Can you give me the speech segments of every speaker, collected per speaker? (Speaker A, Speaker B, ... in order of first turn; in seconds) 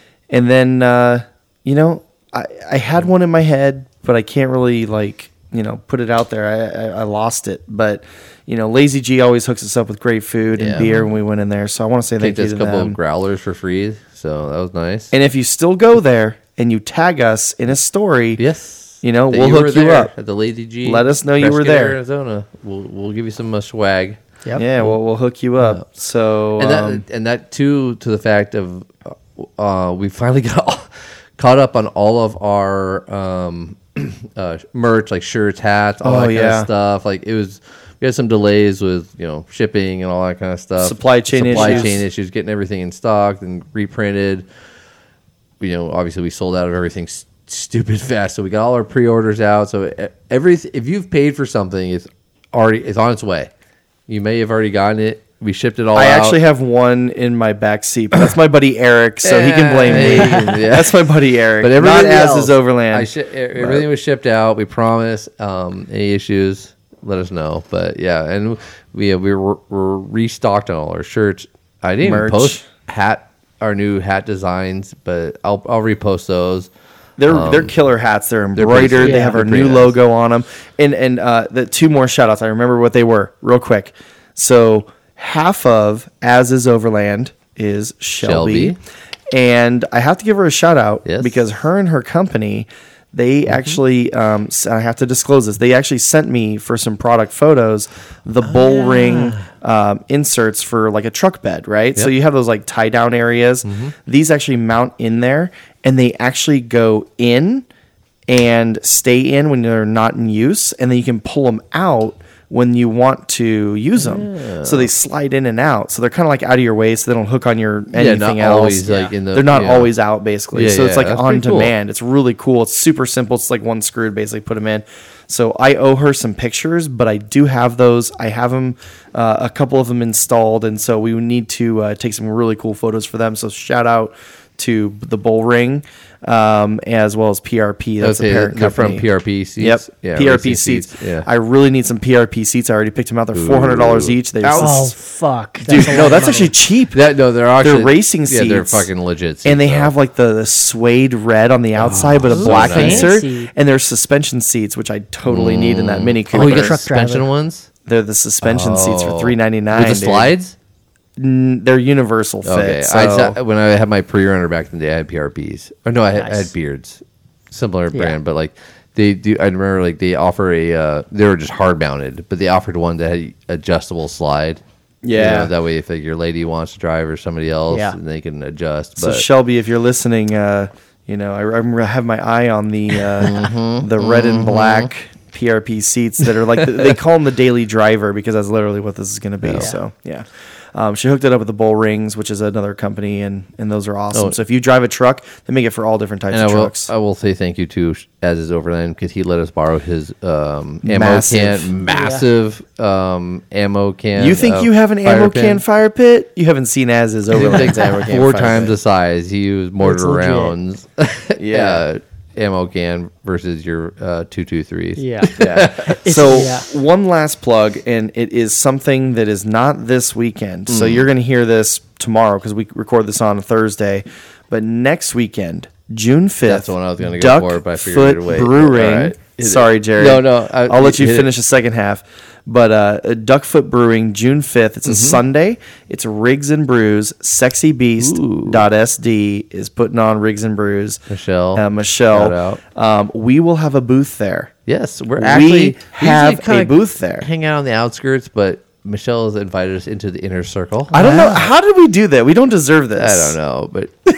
Speaker A: 0.3-13.0, 15.1-18.4, 19.0-20.1, 20.8-22.0, 24.6-27.0, 36.0-36.7, 40.8-42.0, 55.9-63.9, 72.0-72.6, 77.2-88.8, 89.3-107.6, 108.3-139.1, 139.6-144.9, 145.7-147.0, 147.6-148.9, 149.4-156.8, 157.9-160.3, 161.2-163.3, 175.0-175.5, 179.0-196.9, 200.8-201.7, 204.2-208.7, 211.4-211.8, 215.4-241.0, 241.5-244.5, 245.2-247.2, 250.9-253.4
Speaker B: 10.5-10.9, 12.2-15.1, 18.4-24.2, 26.6-44.5, 45.6-53.5, 54.1-56.4, 59.2-76.7, 77.3-77.7, 78.5-79.9, 88.2-88.8, 91.0-91.4, 93.5-93.8, 98.4-99.5, 103.6-103.9, 114.0-114.9, 117.9-119.9, 120.5-121.7, 138.0-141.3, 143.3-144.9, 145.7-149.9, 151.8-153.2, 155.2-157.7, 158.4-160.5, 162.4-174.6, 175.2-179.2, 183.2-184.9, 189.4-189.7, 194.1-194.4, 196.3-205.6, 207.3-216.0, 220.7-221.1, 226.4-231.3, 234.8-235.2, 238.0-238.7, 241.1-242.6, 244.7-251.0, 253.0-253.9
Speaker C: 10.8-11.1, 41.5-41.9, 79.0-79.4, 144.5-146.5, 152.3-153.5, 156.3-157.3, 166.2-166.5, 177.7-178.0, 201.9-202.2, 207.4-208.0, 209.8-210.6, 215.0-216.7, 250.9-251.5